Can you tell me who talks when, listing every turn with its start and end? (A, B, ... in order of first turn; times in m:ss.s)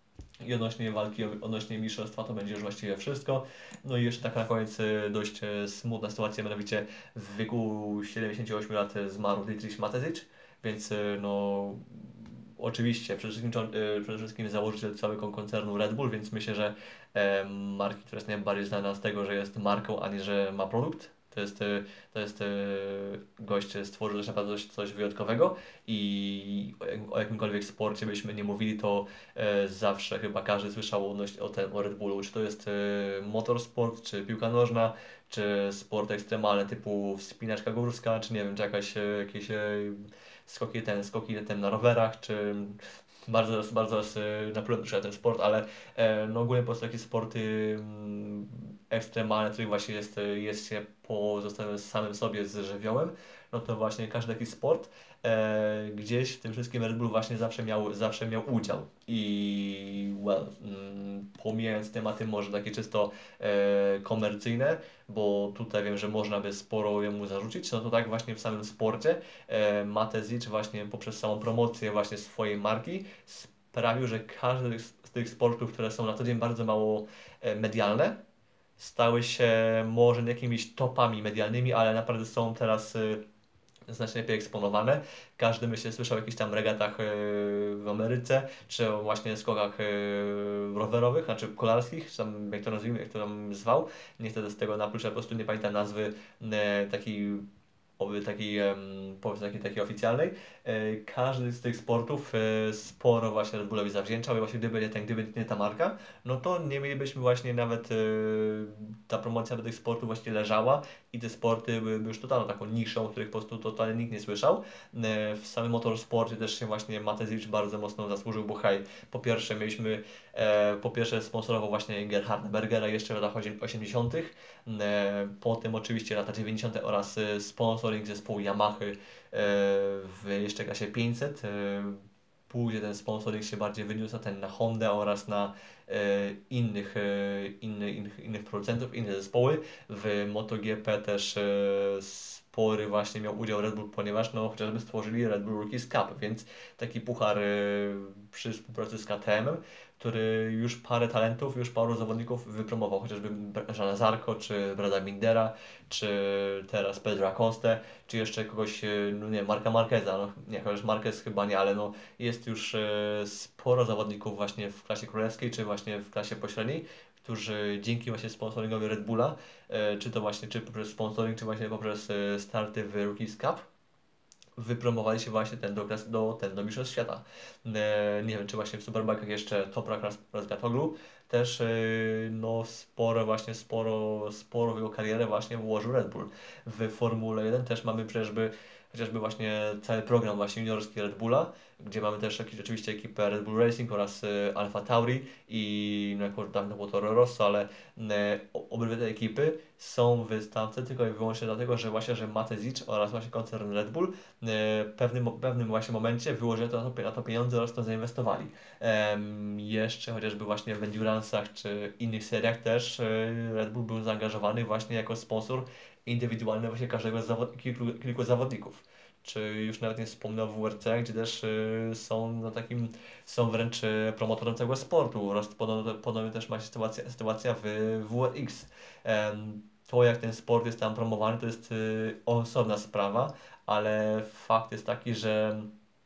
0:00.4-1:18.2 A
1:18.8-1:23.2 A
1:23.9-1:37.4 A
1:38.0-2:53.6 A
2:54.6-3:55.7 A